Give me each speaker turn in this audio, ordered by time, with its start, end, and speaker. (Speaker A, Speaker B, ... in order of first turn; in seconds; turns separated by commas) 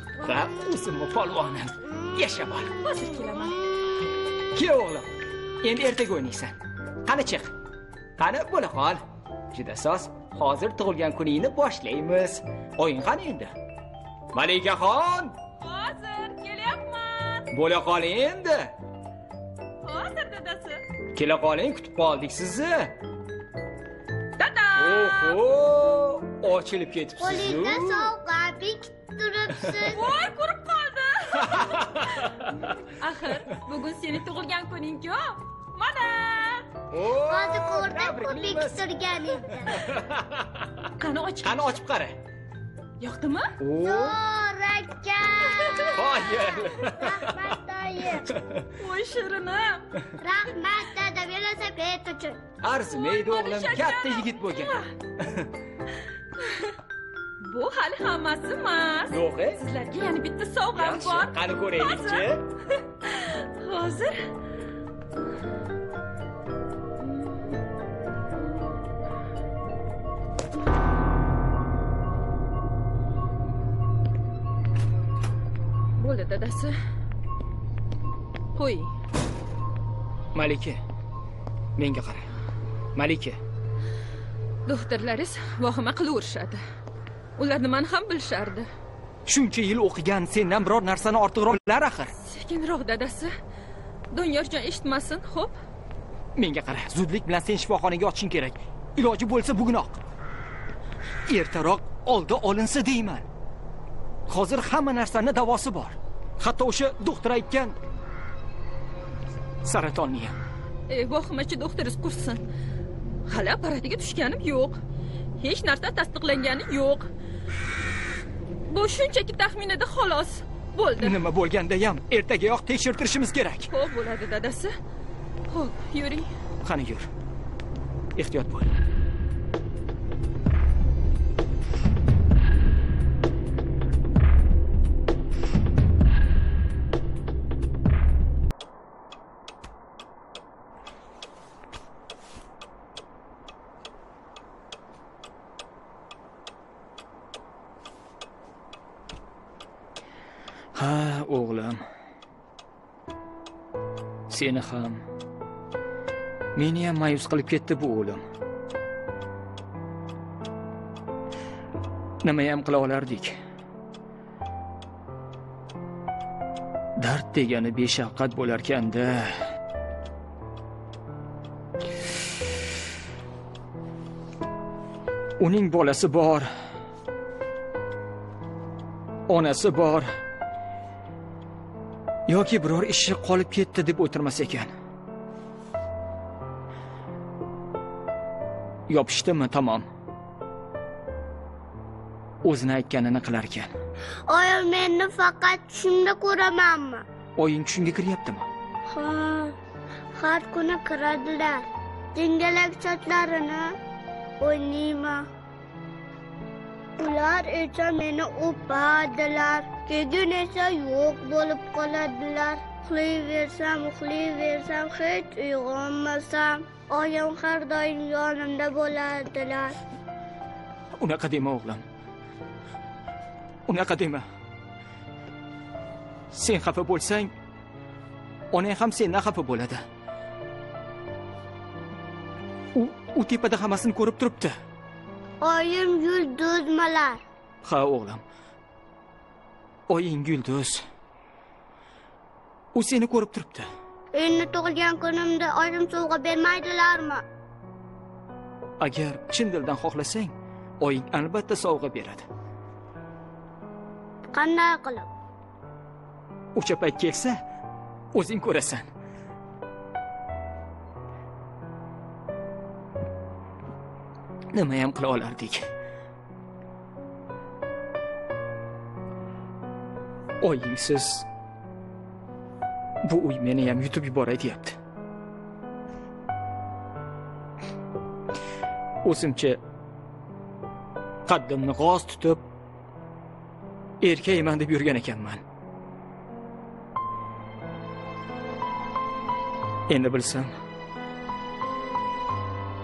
Speaker A: 0.2-2.7, Speaker B: 2.8-3.6, Speaker A: 4.5-5.1, Speaker A: 5.6-7.5, Speaker A: 8.2-13.5, Speaker A: 14.3-15.4, Speaker B: 15.6-17.5, Speaker A: 17.5-18.8, Speaker B: 19.8-20.8, Speaker A: 21.1-23.0, Speaker B: 24.4-25.4, Speaker A: 24.8-28.1, Speaker C: 27.2-30.1, Speaker B: 29.9-36.7, Speaker A: 31.5-32.2, Speaker A: 36.9-38.9, Speaker C: 37.2-39.9, Speaker A: 39.7-40.7, Speaker B: 41.0-41.6, Speaker A: 41.4-42.2, Speaker B: 43.0-43.6, Speaker A: 43.6-44.2, Speaker C: 43.8-48.4, Speaker A: 45.9-47.6, Speaker A: 48.3-48.7, Speaker B: 48.7-50.0, Speaker C: 50.2-52.4, Speaker A: 52.6-55.5, Speaker B: 52.9-54.9, Speaker B: 56.4-56.7, Speaker B: 57.4-62.4, Speaker A: 59.1-59.6, Speaker A: 60.7-62.5, Speaker B: 63.0-64.3, Speaker B: 76.0-76.8, Speaker B: 78.5-78.9, Speaker A: 80.3-80.8, Speaker A: 81.8-82.3, Speaker A: 83.0-83.4, Speaker B: 84.7-86.6, Speaker B: 87.4-88.7, Speaker A: 89.3-92.1, Speaker B: 92.2-93.3, Speaker B: 94.1-95.5, Speaker A: 96.4-100.0, Speaker A: 101.3-103.3, Speaker A: 104.3-107.8, Speaker A: 109.6-110.4, Speaker B: 110.9-112.4, Speaker B: 113.3-114.8, Speaker B: 115.4-117.1, Speaker B: 118.7-121.2, Speaker A: 121.0-123.7, Speaker B: 123.7-124.7, Speaker B: 125.5-126.3, Speaker A: 126.6-127.1, Speaker A: 128.2-128.8, Speaker A: 150.8-151.8, Speaker A: 154.3-155.0, Speaker A: 156.6-158.2, Speaker A: 162.2-163.4, Speaker A: 167.0-169.4, Speaker A: 175.4-176.5, Speaker A: 179.3-180.1, Speaker A: 182.3-184.7, Speaker A: 188.9-189.9, Speaker A: 192.4-193.8, Speaker C: 194.3-197.1, Speaker A: 197.4-198.5, Speaker C: 198.9-199.6, Speaker C: 200.2-203.7, Speaker C: 204.4-205.3, Speaker C: 207.0-219.8, Speaker A: 221.0-221.8, Speaker A: 223.7-224.2, Speaker A: 226.3-227.3, Speaker A: 228.5-229.8, Speaker A: 232.7-234.6, Speaker C: 235.4-237.2, Speaker A: 237.6-238.2, Speaker A: 239.9-240.8, Speaker A: 242.7-243.7, Speaker C: 244.1-247.2, Speaker A: 248.8-252.3, Speaker C: 254.3-255.1, Speaker A: 256.6-257.4, Speaker A: 258.1-258.9, Speaker A: 264.5-265.6, Speaker A: 270.4-271.3, Speaker A: 273.0-274.8, Speaker A: 279.0-279.6, Speaker A: 281.3-282.5, Speaker A: 284.0-285.4, Speaker A: 289.9-290.6